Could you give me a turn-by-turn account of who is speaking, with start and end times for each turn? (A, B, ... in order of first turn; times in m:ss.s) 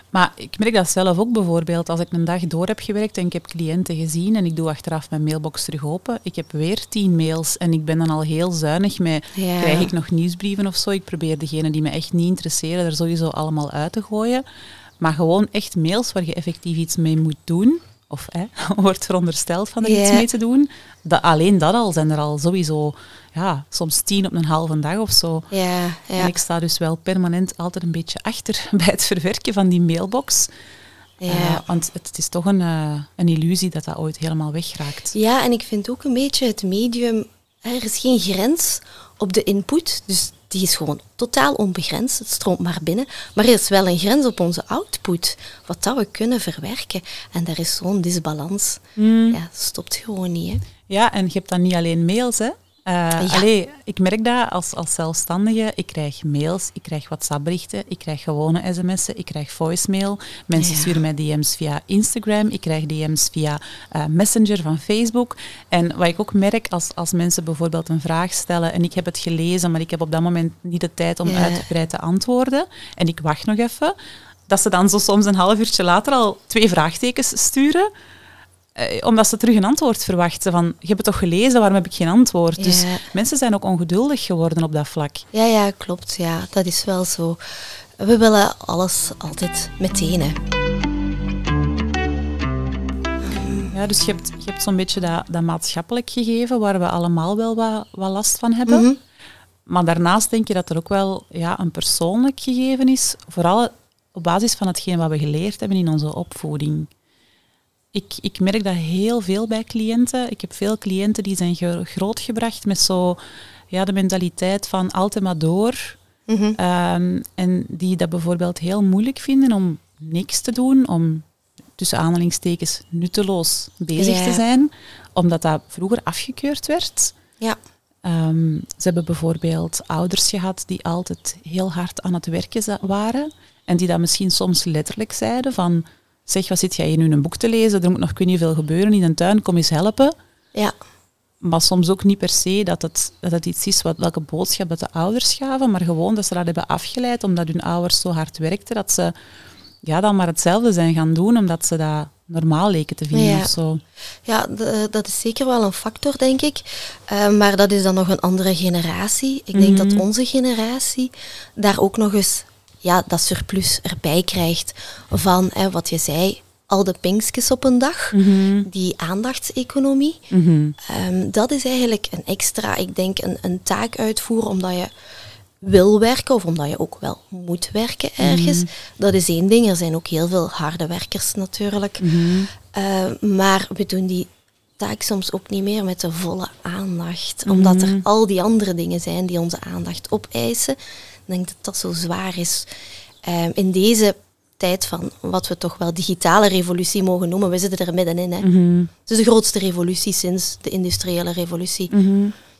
0:00.1-0:14.4 A
0:09.3-0:09.9 B
0:15.0-0:25.5 A
0:19.8-0:20.2 B
0:25.5-0:26.3 B
0:26.2-0:30.5 A
0:31.2-0:31.6 B
0:31.3-0:35.1 A
0:35.1-0:50.6 B
0:49.0-0:49.4 A
0:50.9-1:13.9 A
0:53.2-0:53.4 B
1:00.6-1:01.0 B
1:11.2-1:11.6 B
1:14.5-1:17.9 A
1:18.7-1:25.2 A
1:22.6-1:23.0 B
1:25.3-1:27.4 B
1:28.0-1:30.4 B
1:33.2-1:33.7 B
1:33.7-1:38.8 A
1:38.7-1:39.0 B
1:39.7-1:46.9 A
1:47.9-1:56.0 A
1:56.3-1:56.6 B
1:56.6-2:07.1 A
2:04.0-2:04.4 B
2:08.0-2:20.1 A
2:21.4-2:29.1 A
2:29.8-2:33.8 A
2:33.1-2:33.5 B
2:34.2-2:50.2 B
2:39.5-2:40.0 A
2:48.1-2:48.7 A
2:50.3-2:50.8 A
2:50.8-2:54.9 B
2:55.6-3:02.0 B
2:58.2-2:58.7 A
3:02.0-3:02.5 A
3:02.6-3:12.7 B
3:07.4-3:08.0 A
3:13.2-3:18.5 B
3:18.4-3:18.9 A
3:19.0-3:21.9 B
3:21.9-3:22.3 A